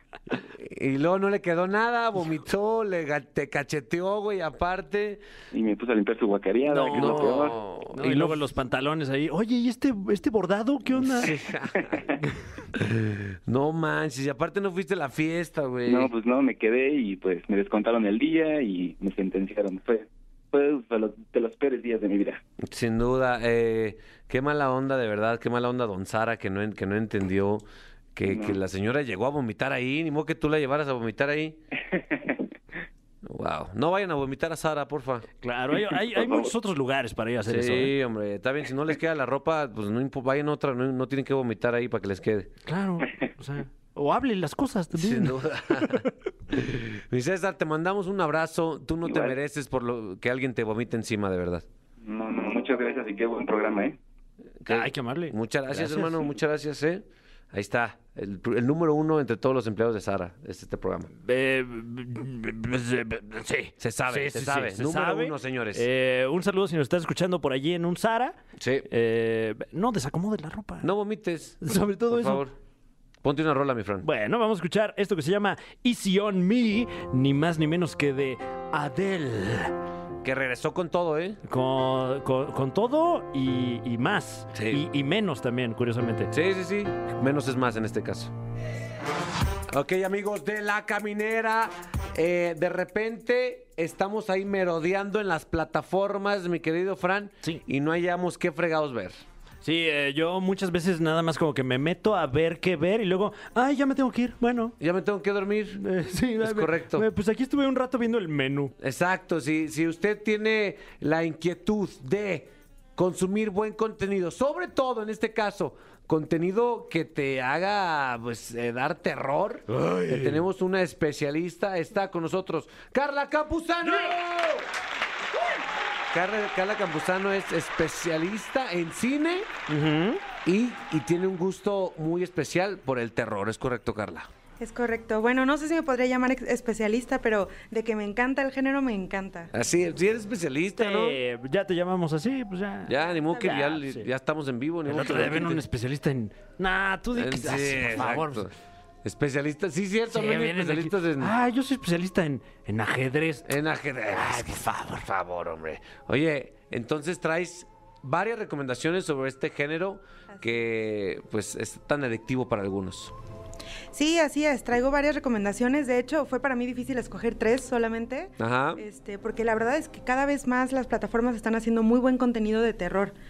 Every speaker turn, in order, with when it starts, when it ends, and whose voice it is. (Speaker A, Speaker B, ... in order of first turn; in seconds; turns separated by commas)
Speaker A: 0.3-5.2, Speaker B: 5.5-7.6, Speaker C: 6.7-11.4, Speaker A: 6.9-8.4, Speaker A: 11.0-12.0, Speaker B: 11.8-12.2, Speaker A: 12.7-16.1, Speaker B: 15.8-22.4, Speaker A: 22.6-27.6, Speaker A: 28.1-31.6, Speaker B: 28.2-28.6, Speaker B: 31.9-32.5, Speaker A: 33.2-35.2, Speaker C: 35.4-37.9, Speaker B: 36.1-36.5, Speaker A: 37.5-42.5, Speaker C: 42.7-46.1, Speaker A: 44.9-51.6, Speaker B: 49.0-49.4, Speaker B: 52.0-54.0, Speaker A: 54.6-61.1, Speaker C: 54.6-56.2, Speaker C: 61.2-68.3, Speaker A: 63.8-65.8, Speaker A: 68.6-68.9, Speaker C: 68.9-70.9, Speaker A: 70.8-72.5, Speaker C: 71.6-72.4, Speaker A: 73.2-74.0, Speaker C: 74.0-79.7, Speaker A: 80.2-81.4, Speaker C: 81.4-86.3, Speaker A: 84.5-84.8, Speaker A: 86.3-88.3, Speaker A: 89.7-99.2, Speaker C: 99.6-104.7, Speaker A: 104.8-105.8, Speaker C: 105.8-108.7, Speaker A: 106.4-107.1, Speaker A: 108.8-124.7, Speaker C: 119.7-120.4, Speaker C: 123.8-124.1, Speaker A: 126.1-129.5, Speaker C: 129.7-130.2, Speaker A: 130.4-134.3, Speaker D: 134.6-139.5, Speaker A: 139.5-141.2, Speaker C: 140.8-144.1, Speaker A: 142.9-145.6, Speaker C: 144.9-148.5, Speaker A: 147.2-148.5, Speaker A: 149.0-151.3, Speaker C: 150.1-153.5, Speaker A: 153.4-163.1, Speaker C: 154.1-155.0, Speaker D: 163.9-173.1, Speaker A: 168.4-168.8